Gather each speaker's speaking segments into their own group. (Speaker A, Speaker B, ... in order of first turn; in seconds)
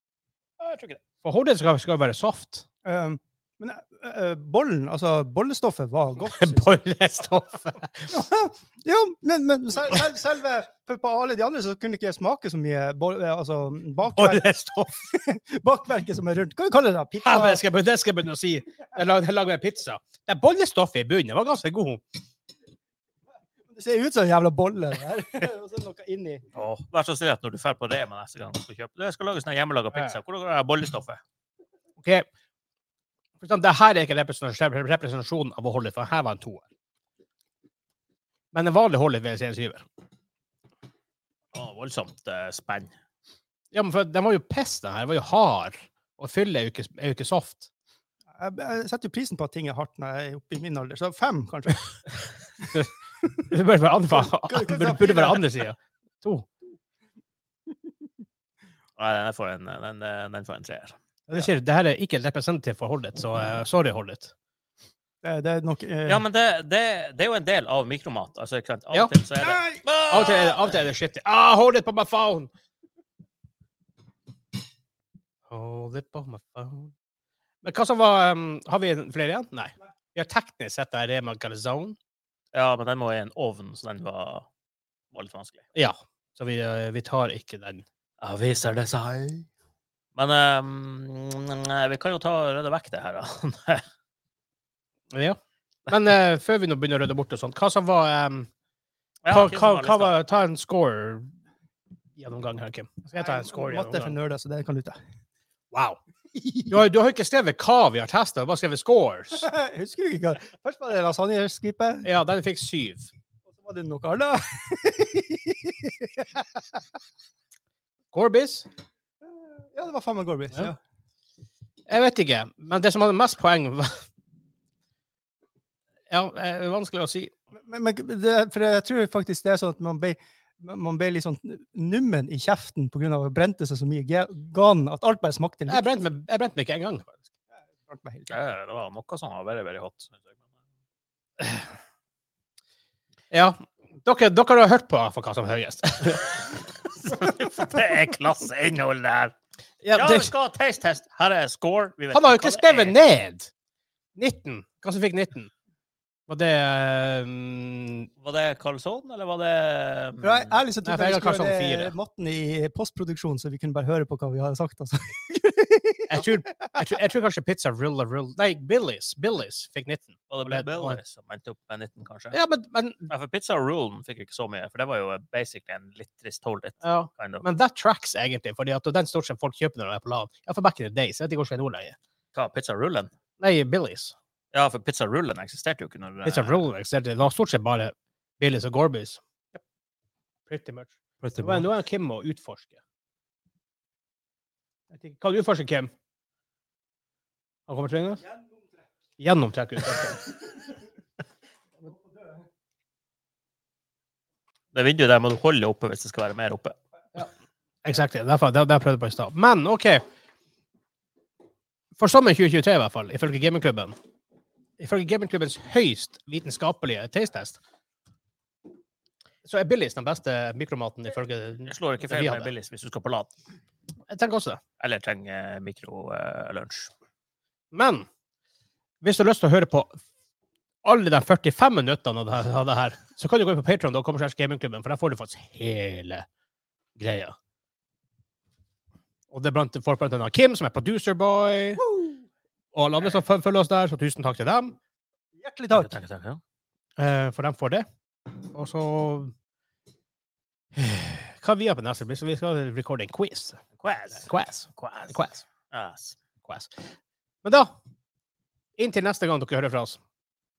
Speaker A: 0.6-1.0, 26.5-31.2, 41.5-42.9, 59.0-61.0, 66.1-70.8, 82.5-84.5, 85.1-85.7, 88.2-89.5, 90.2-93.8, 99.2-100.2, 138.3-140.3, 147.0-149.3, 149.9-153.0, 158.2-160.6, 170.3-172.4, 173.1-177.4, 182.3-183.1, 184.5-186.7, 191.2-191.7, 204.7-206.8, 221.7-223.3, 224.8-226.9, 245.7-246.4, 253.8-256.2
Speaker B: 1.2-2.7, 6.3-8.1, 14.2-15.1, 17.2-22.0, 29.9-30.2, 32.0-32.3, 33.4-36.6, 38.5-39.9, 43.7-47.7, 53.5-56.5, 61.3-64.3, 70.1-72.5, 75.5-76.9, 77.6-82.0, 85.8-87.8, 95.1-98.5, 99.3-101.3, 102.2-104.2, 105.7-106.0, 106.7-109.5, 112.0-113.1, 118.1-118.7, 121.9-124.0, 126.1-127.3, 135.7-137.2, 143.3-146.5, 149.8-150.3, 152.1-153.5, 154.2-155.5, 156.3-158.1, 160.8-161.9, 166.1-171.0, 172.3-173.1, 176.8-182.0, 183.4-184.1, 186.2-189.2, 190.5-192.8, 194.9-195.9, 197.7-198.2, 199.2-200.3, 207.8-210.0, 212.0-213.9, 214.8-217.6, 219.4-222.5, 224.1-224.6, 227.7-228.1, 229.0-230.0, 230.8-236.3, 237.0-237.4, 239.3-241.8, 242.7-244.8, 247.0-247.9, 248.5-249.3, 250.8-253.6, 254.2-255.4, 256.4-256.8, 257.4-257.7, 258.8-260.0
Speaker C: 2.9-6.7, 8.1-14.5, 15.1-17.6, 23.7-26.4, 48.3-51.9, 54.1-55.5, 65.2-66.2, 69.4-69.8, 103.2-105.0, 106.3-106.8, 109.3-112.1, 113.5-116.8, 119.6-120.8, 127.5-135.8, 137.8-138.3, 160.2-166.8, 198.2-198.7, 201.9-202.3, 241.8-242.2, 245.4-245.9